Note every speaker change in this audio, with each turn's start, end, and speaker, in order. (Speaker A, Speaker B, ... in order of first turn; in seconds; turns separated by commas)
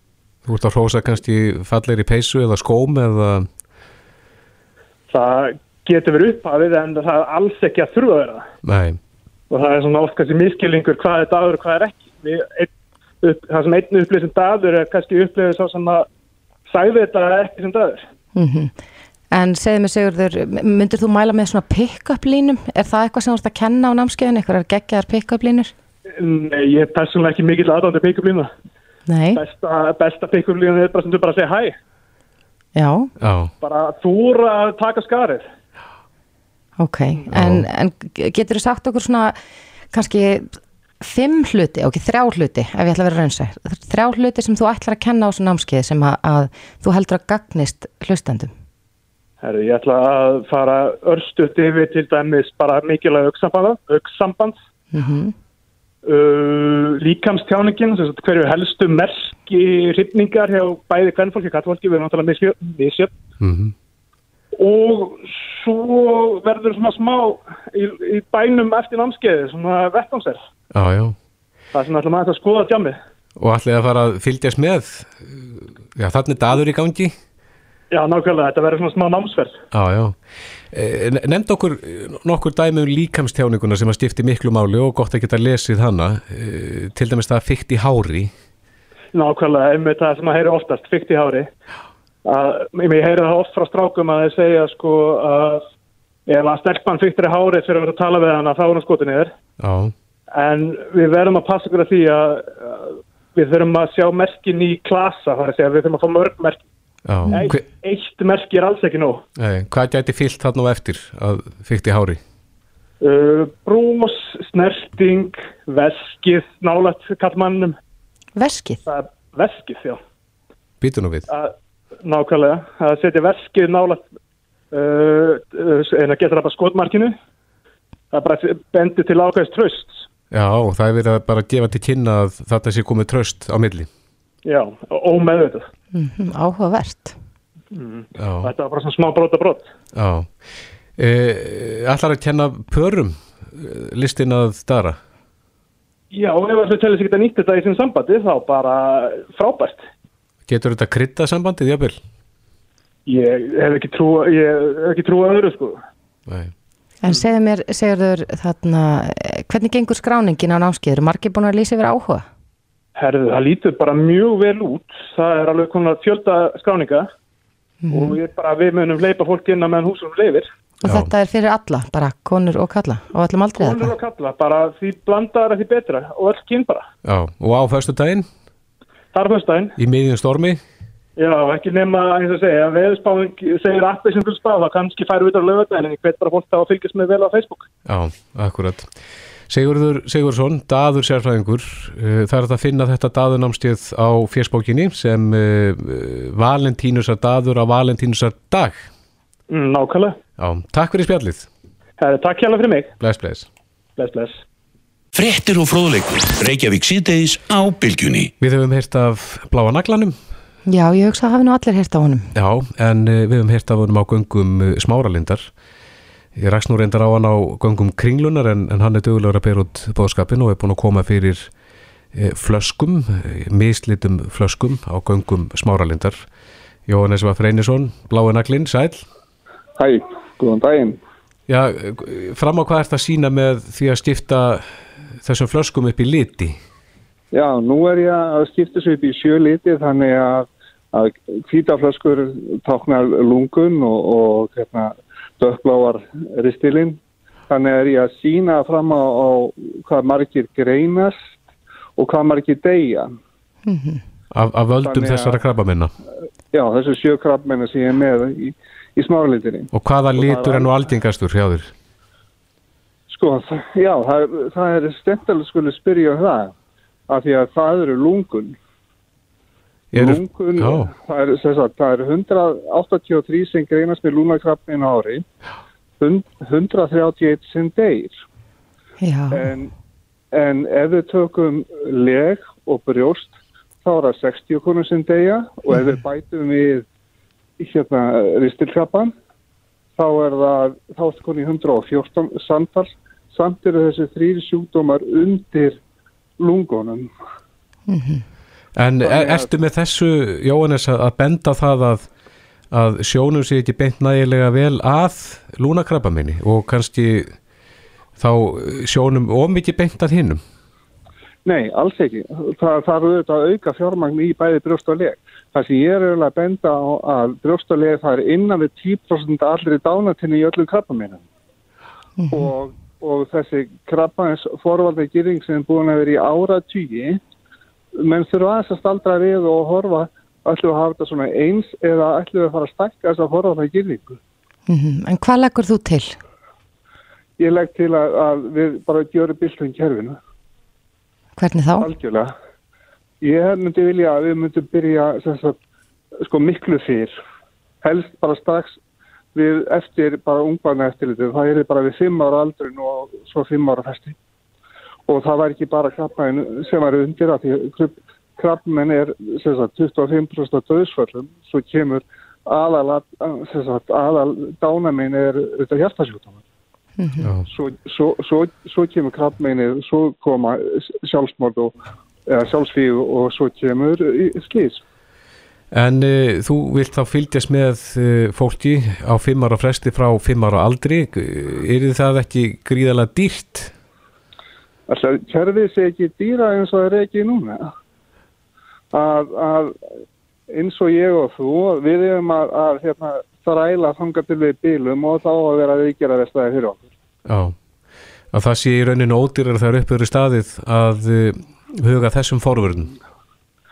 Speaker A: 0.5-3.5, Speaker B: 5.1-8.5, Speaker A: 8.6-9.0, Speaker B: 9.5-12.7, Speaker B: 13.2-16.1, Speaker B: 16.7-18.1, Speaker C: 18.4-18.7, Speaker C: 19.3-25.7, Speaker B: 26.1-28.5, Speaker C: 29.1-29.4, Speaker B: 29.4-31.8, Speaker C: 32.8-33.1, Speaker A: 33.2-33.5, Speaker B: 33.6-35.5, Speaker C: 36.8-39.4, Speaker A: 37.3-37.7, Speaker C: 39.9-48.5, Speaker B: 49.4-54.6, Speaker C: 54.9-55.4, Speaker B: 56.0-63.1, Speaker A: 63.4-63.7, Speaker B: 64.5-70.4, Speaker A: 70.7-71.2, Speaker B: 71.7-73.0, Speaker A: 73.4-77.1, Speaker B: 77.9-79.6, Speaker A: 79.7-80.2, Speaker A: 80.7-88.3, Speaker B: 89.1-91.5, Speaker B: 92.2-95.7, Speaker B: 96.3-99.3, Speaker A: 99.6-99.9, Speaker B: 100.3-106.6, Speaker A: 107.0-107.6, Speaker C: 107.3-107.5, Speaker B: 107.3-109.2, Speaker A: 109.4-112.2, Speaker B: 113.0-117.8, Speaker C: 118.4-118.8, Speaker B: 118.9-120.0, Speaker A: 120.8-121.3, Speaker B: 121.3-124.0, Speaker B: 124.7-127.1, Speaker B: 128.1-130.1, Speaker A: 130.3-133.9, Speaker B: 134.4-135.7, Speaker C: 135.9-137.2, Speaker B: 137.7-139.7, Speaker A: 138.2-138.5, Speaker A: 139.9-140.4, Speaker A: 141.0-145.0, Speaker B: 146.1-149.8, Speaker A: 150.5-152.0, Speaker B: 153.1-155.8, Speaker A: 156.3-156.5, Speaker C: 157.0-162.3, Speaker B: 163.0-167.1, Speaker C: 167.8-168.2, Speaker B: 167.9-170.5, Speaker C: 170.8-174.0, Speaker A: 170.8-171.1, Speaker B: 173.6-176.9, Speaker A: 177.1-178.3, Speaker B: 179.1-179.8, Speaker A: 179.8-180.6, Speaker B: 181.2-187.7, Speaker A: 187.9-188.9, Speaker A: 189.5-198.9, Speaker B: 199.5-200.2, Speaker A: 200.4-201.5, Speaker B: 202.0-202.9, Speaker A: 203.0-203.5, Speaker B: 204.0-204.4, Speaker D: 205.1-208.3, Speaker A: 208.4-210.2, Speaker C: 210.7-212.3, Speaker A: 212.3-215.5, Speaker A: 216.4-221.5, Speaker A: 222.1-226.2, Speaker A: 226.9-229.1, Speaker E: 229.8-231.0, Speaker A: 231.5-236.6, Speaker E: 237.3-251.2, Speaker E: 252.0-253.1, Speaker C: 253.7-254.0, Speaker A: 254.3-255.9, Speaker E: 254.8-255.5, Speaker E: 256.5-260.8, Speaker A: 259.7-261.7, Speaker E: 263.1-266.5, Speaker E: 267.1-268.6, Speaker A: 269.9-270.9, Speaker E: 269.9-275.2, Speaker E: 276.0-278.2, Speaker C: 279.0-279.5, Speaker E: 279.3-279.7, Speaker E: 280.3-286.9, Speaker E: 287.6-289.1, Speaker E: 290.0-295.8, Speaker E: 296.4-297.1, Speaker C: 297.9-298.2, Speaker A: 298.8-302.1, Speaker E: 299.0-299.5, Speaker A: 302.7-307.4, Speaker A: 308.2-310.4, Speaker E: 311.4-321.2, Speaker C: 322.2-322.5, Speaker E: 322.3-327.2, Speaker E: 328.0-334.2, Speaker C: 334.7-336.2, Speaker E: 337.4-340.2, Speaker C: 341.4-341.9, Speaker E: 341.8-342.3, Speaker E: 343.2-345.6, Speaker E: 346.2-347.1, Speaker E: 347.8-348.8, Speaker E: 349.3-354.2, Speaker E: 355.1-366.4, Speaker C: 367.0-367.3, Speaker E: 367.5-371.7, Speaker E: 372.3-374.8, Speaker A: 375.7-383.7, Speaker E: 384.9-387.7, Speaker E: 388.9-389.8, Speaker E: 390.5-396.9, Speaker A: 397.3-397.6, Speaker A: 398.3-402.9